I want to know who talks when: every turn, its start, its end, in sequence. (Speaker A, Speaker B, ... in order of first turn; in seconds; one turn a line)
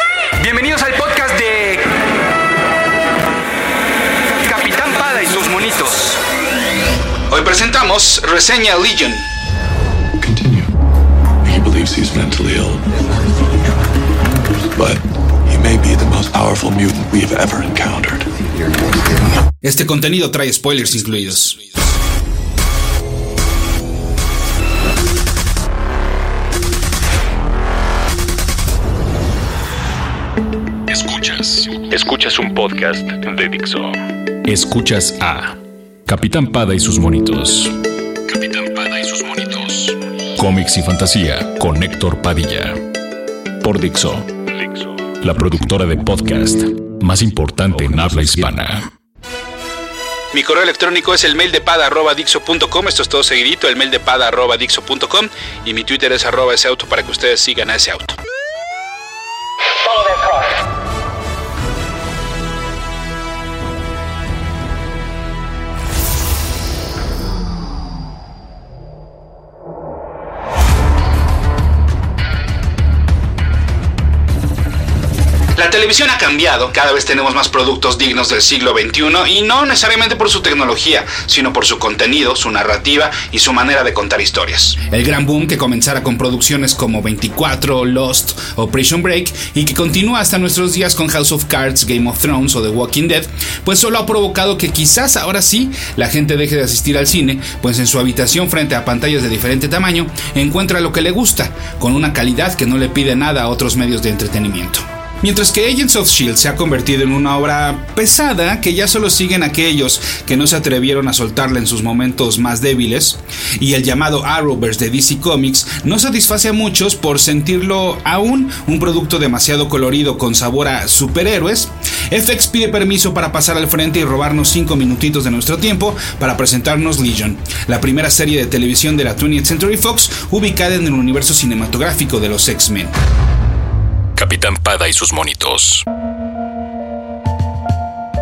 Speaker A: 0.4-1.9
Speaker A: 4.3-6.2
Speaker A: 7.3-9.2
Speaker B: 10.2-10.7
Speaker B: 11.4-12.8
Speaker B: 14.8-18.3
Speaker A: 19.6-21.6
Speaker C: 30.9-37.8
Speaker C: 38.3-42.8
Speaker C: 43.6-48.9
Speaker A: 50.3-58.2
Speaker A: 75.6-132.9
Speaker C: 134.2-135.8